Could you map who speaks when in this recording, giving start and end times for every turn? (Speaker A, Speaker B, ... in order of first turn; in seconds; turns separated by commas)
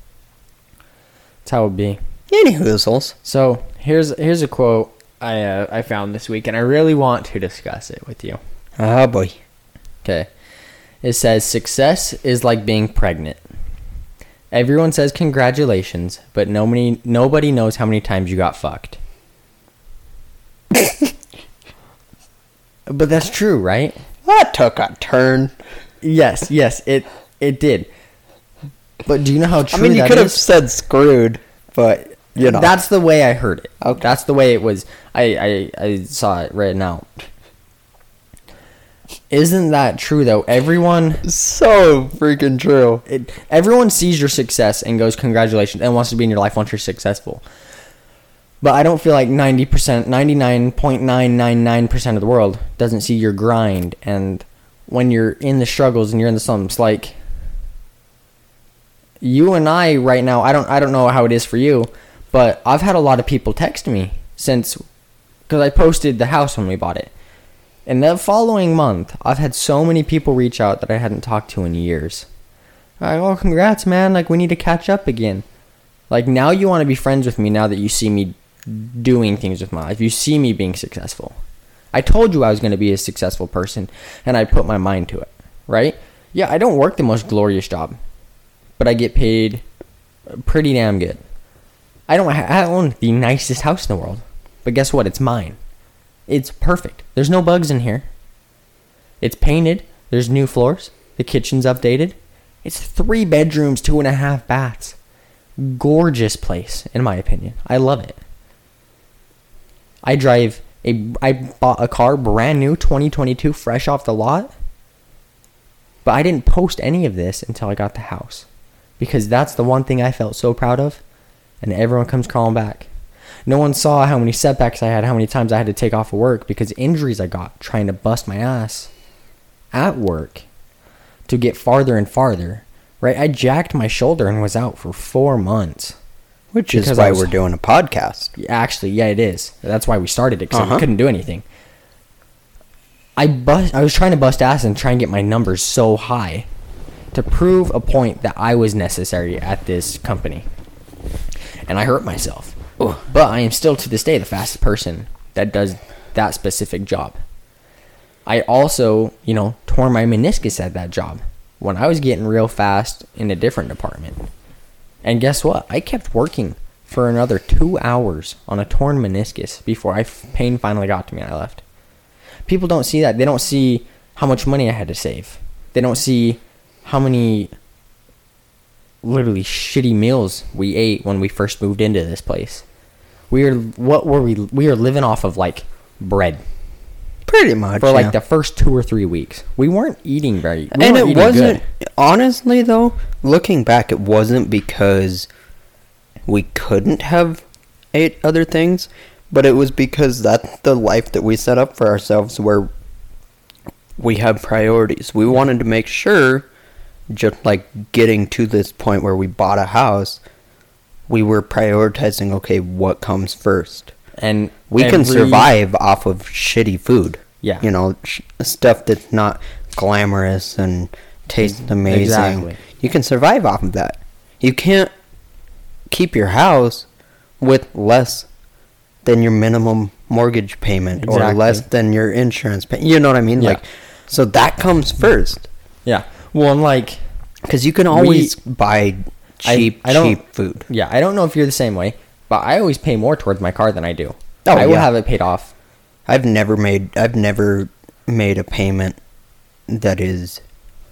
Speaker A: 1.4-2.0, Speaker B: 2.3-3.1, Speaker A: 3.2-8.4, Speaker B: 8.8-9.4, Speaker A: 10.0-10.3, Speaker A: 11.0-13.4, Speaker A: 14.5-19.0, Speaker A: 22.9-24.0, Speaker B: 24.2-25.5, Speaker A: 26.0-27.9, Speaker A: 29.1-30.4, Speaker B: 29.7-32.7, Speaker A: 32.4-37.1, Speaker A: 39.3-41.2, Speaker B: 41.2-43.0, Speaker A: 43.1-47.4, Speaker A: 48.6-57.2, Speaker A: 59.2-64.8, Speaker A: 65.5-67.1, Speaker A: 67.9-72.3, Speaker A: 73.0-75.4, Speaker A: 76.1-81.3, Speaker A: 81.9-88.0, Speaker A: 88.8-89.6, Speaker A: 90.4-91.2, Speaker A: 92.1-95.6, Speaker A: 96.3-98.1, Speaker A: 99.2-105.0, Speaker A: 105.6-108.2, Speaker A: 110.1-114.5, Speaker A: 116.0-118.5, Speaker A: 119.0-121.0, Speaker A: 121.6-122.9, Speaker A: 123.5-128.9, Speaker A: 129.7-130.4, Speaker A: 131.3-136.0, Speaker B: 136.5-138.3, Speaker A: 136.7-137.3, Speaker A: 138.4-141.4, Speaker B: 140.5-140.9, Speaker A: 143.2-146.5, Speaker A: 147.1-150.5, Speaker A: 151.7-157.2, Speaker A: 158.3-164.2, Speaker A: 165.0-171.6, Speaker A: 172.5-177.5, Speaker A: 179.0-182.6, Speaker A: 183.3-186.4, Speaker B: 187.3-188.1, Speaker A: 187.8-191.6, Speaker B: 190.7-195.3, Speaker B: 196.3-202.7, Speaker B: 204.0-206.5, Speaker B: 207.1-210.2, Speaker B: 211.1-213.9, Speaker A: 214.2-215.5, Speaker B: 214.7-224.9, Speaker A: 221.8-222.6, Speaker B: 225.9-226.9, Speaker B: 227.4-228.3, Speaker B: 229.1-235.5, Speaker A: 231.0-231.6, Speaker A: 235.9-237.0, Speaker B: 237.5-240.7, Speaker A: 237.9-238.4, Speaker A: 239.4-245.5, Speaker B: 244.5-244.9, Speaker B: 246.1-249.0, Speaker B: 249.7-250.4